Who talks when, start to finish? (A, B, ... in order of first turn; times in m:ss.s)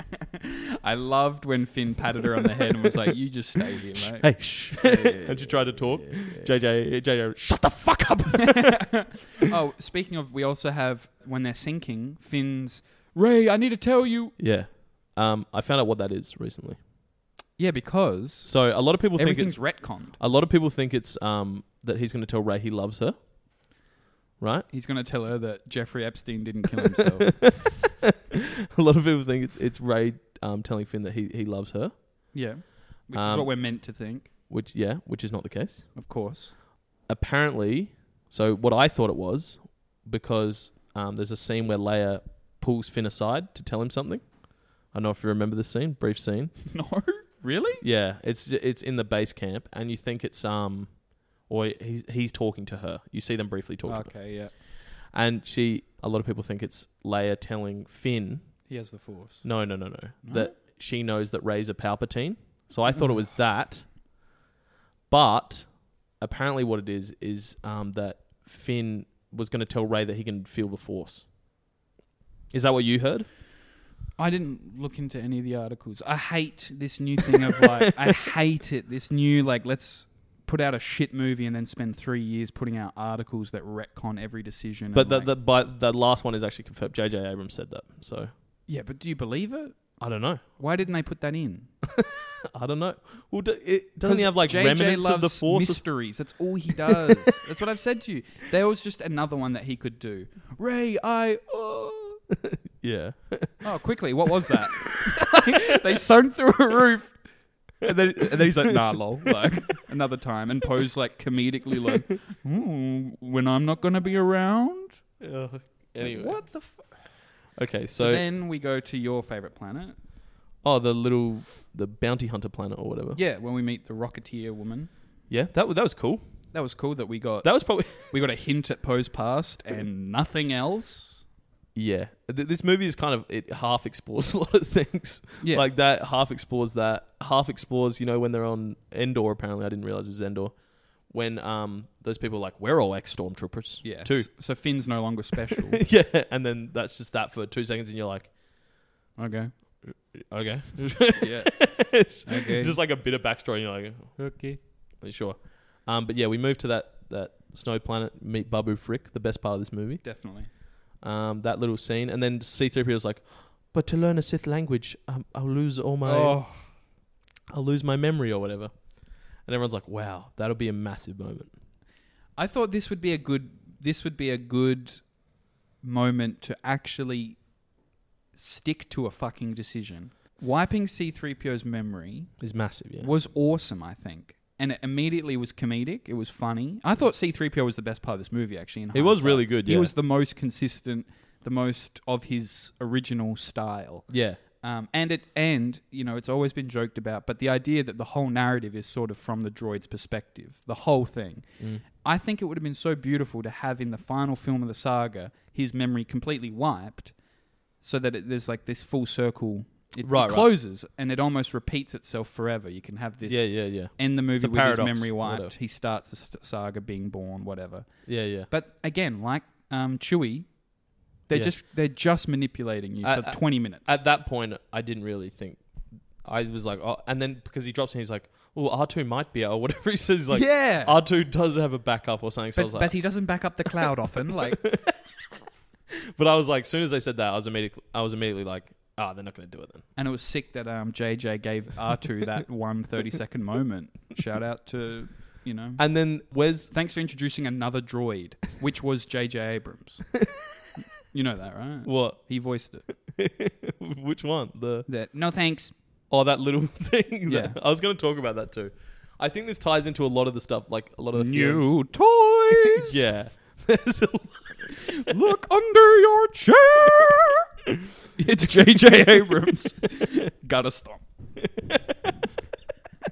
0:00.4-0:06.5 A
0:04.2-0:08.8 B
0:08.3-0:14.4 A
0:14.4-0:16.8 B
0:17.6-0:20.2 A
0:18.4-0:23.2 B
0:24.4-0:24.7 B
0:24.7-0:27.8 A
0:27.0-0:32.4 B
0:32.3-0:34.3 A
0:33.1-0:33.7 B
0:34.5-0:35.9 B
0:36.0-0:36.5 A
0:37.0-0:46.7 B
0:46.7-0:47.8 A
0:47.8-0:58.7 B
0:53.9-0:54.5 A
0:58.7-1:00.5 A
0:59.4-1:04.0 B
1:02.9-1:03.2 A
1:05.1-1:11.3 B
1:12.5-1:13.3 B
1:14.2-1:25.3 A
1:24.9-1:28.3 B
1:28.7-1:30.0 A
1:30.0-1:30.4 B
1:30.6-1:31.7 A
1:31.9-1:36.0 B
1:34.0-1:42.2 A
1:42.4-1:43.7 B
1:43.6-1:47.2 A
1:44.5-1:45.0 B
1:47.7-1:55.0 A
1:55.2-1:56.4 B
1:56.0-1:57.3 A
1:57.6-1:58.2 B
1:58.0-2:00.0 A
2:00.6-2:03.2 B
2:03.2-2:04.9 A
2:05.3-2:06.2 B
2:06.5-2:11.2 A
2:07.4-2:08.2 B
2:11.8-2:24.3 B
2:15.4-2:15.7 A
2:23.8-2:25.8 A
2:25.7-2:28.4 B
2:29.2-2:29.5 A
2:29.8-2:34.4 B
2:31.2-2:32.8 A
2:34.2-2:34.6 A
2:35.0-2:40.2 B
2:40.0-2:40.5 A
2:41.0-2:46.4 B
2:46.0-2:46.7 A
2:47.5-2:51.5 B
2:52.4-2:55.2 A
2:55.8-2:57.5 A
2:58.3-3:02.4 A
3:02.4-3:03.1 B
3:03.0-3:27.2 A
3:08.9-3:09.9 B
3:14.1-3:14.4 B
3:21.6-3:21.8 B
3:27.8-3:44.0 A
3:30.0-3:30.5 B
3:33.3-3:35.5 B
3:38.1-3:38.5 B
3:41.3-3:41.6 B
3:43.0-3:45.7 B
3:46.2-3:53.0 B
3:50.3-3:51.0 A
3:52.6-3:54.6 A
3:53.6-3:55.2 B
3:56.2-3:59.9 B
4:00.0-4:06.2 A
4:05.8-4:06.7 B
4:06.7-4:10.1 A
4:11.1-4:12.9 A
4:11.8-4:12.2 B
4:12.9-4:14.9 B
4:14.9-4:15.7 A
4:16.1-4:21.8 B
4:17.3-4:17.6 A
4:21.2-4:23.0 A
4:22.7-4:25.1 B
4:24.8-4:27.4 A
4:28.2-4:31.1 A
4:31.4-4:32.2 B